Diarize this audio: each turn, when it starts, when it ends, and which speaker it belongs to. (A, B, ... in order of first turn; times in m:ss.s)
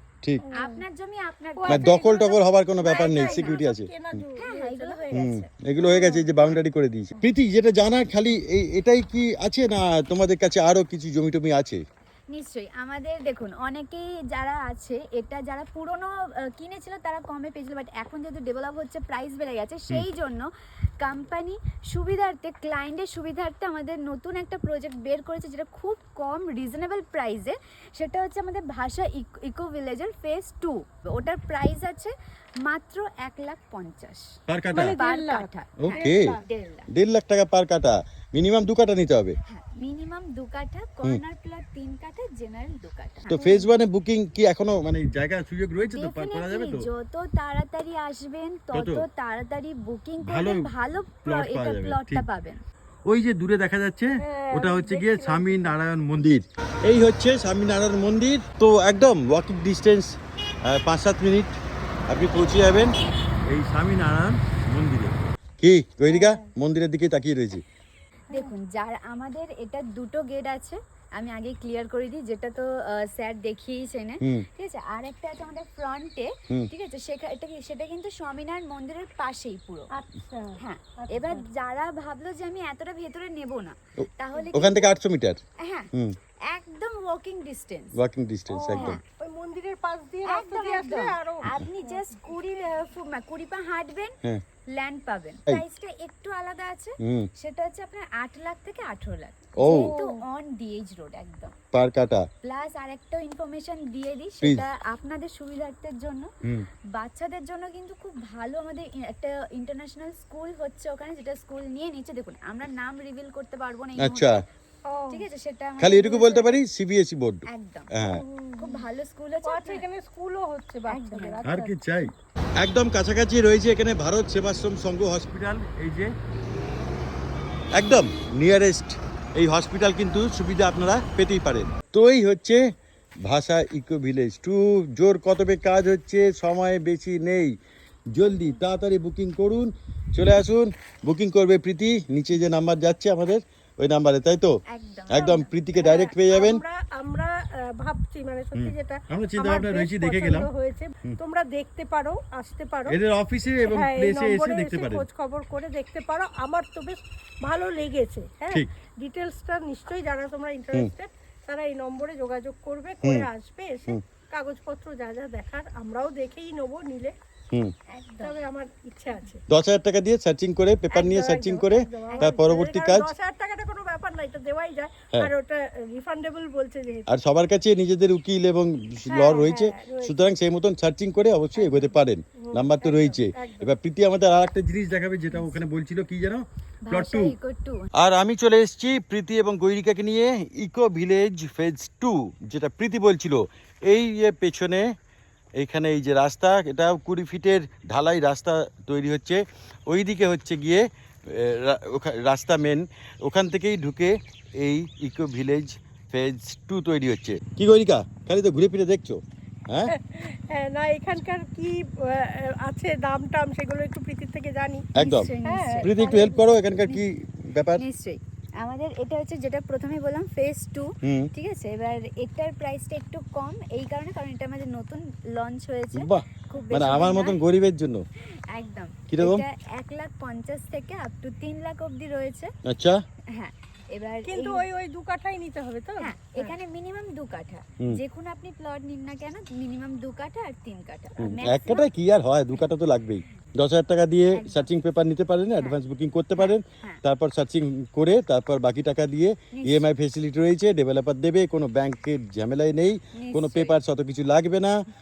0:00.4-0:00.8 A
0:00.5-0:03.6 B
0:01.5-0:02.1 A
0:01.7-0:04.2 C
0:02.8-0:05.2 A
0:04.4-0:05.5 B
0:05.1-0:11.8 C
0:05.8-0:06.3 A
0:12.3-0:20.5 B
0:21.0-0:32.1 B
0:32.6-0:36.9 B
0:34.5-0:35.0 C
0:34.7-0:36.4 A
0:35.8-0:36.3 C
0:36.9-0:39.3 C
0:39.5-0:43.5 B
0:43.3-0:46.9 C
0:43.3-0:43.7 A
0:45.8-0:52.6 B
0:48.7-0:49.0 C
0:50.2-0:50.7 C
0:51.2-0:52.2 C
0:53.0-1:01.6 C
0:54.2-0:55.8 A
1:02.1-1:02.9 C
1:03.5-1:07.6 C
1:06.1-1:06.5 A
1:08.3-1:19.9 B
1:19.9-1:21.4 A
1:20.6-1:24.9 B
1:24.0-1:25.4 C
1:25.6-1:25.9 B
1:26.5-1:28.0 B
1:28.0-1:29.0 C
1:28.5-1:32.1 A
1:28.7-1:29.0 B
1:30.3-1:34.1 B
1:34.8-1:41.5 B
1:37.0-1:37.3 C
1:39.6-1:39.9 C
1:39.6-1:40.2 A
1:41.7-1:42.2 C
1:42.4-1:46.3 B
1:47.0-1:54.4 B
1:54.0-1:54.4 C
1:54.9-1:55.2 A
1:55.1-1:56.6 B
1:55.8-1:58.2 C
1:57.5-1:57.9 B
1:58.0-1:58.8 A
1:58.6-1:59.8 B
1:59.4-2:01.7 A
2:00.9-2:01.4 B
2:01.4-2:06.1 C
2:07.7-2:12.6 C
2:13.2-2:17.5 C
2:18.1-2:24.6 C
2:24.7-2:26.0 B
2:25.1-2:26.6 C
2:25.8-2:33.0 A
2:28.5-2:30.5 C
2:32.9-2:35.0 C
2:33.6-2:47.1 A
2:43.0-2:43.3 C
2:47.9-2:48.4 B
2:48.2-2:49.4 A
2:49.5-2:53.1 C
2:50.9-2:57.1 A
2:52.1-2:52.3 B
2:57.1-3:07.3 C
2:59.1-3:00.4 A
3:01.6-3:03.7 A
3:05.3-3:05.6 B
3:06.8-3:07.9 B
3:07.9-3:14.9 C
3:15.6-3:29.9 C
3:29.9-3:34.9 A
3:35.0-3:35.3 C
3:35.0-3:36.3 B
3:35.4-3:36.4 A
3:35.8-3:37.8 C
3:37.8-3:47.4 B
3:41.0-3:41.3 C
3:45.9-3:48.0 C
3:48.5-3:52.5 B
3:49.1-3:49.4 C
3:52.6-3:53.0 C
3:53.3-3:54.6 B
3:54.3-3:56.5 A
3:56.0-4:01.9 B
4:01.2-4:14.8 C
4:04.3-4:04.7 B
4:06.4-4:07.0 B
4:09.5-4:09.9 B
4:13.1-4:13.8 B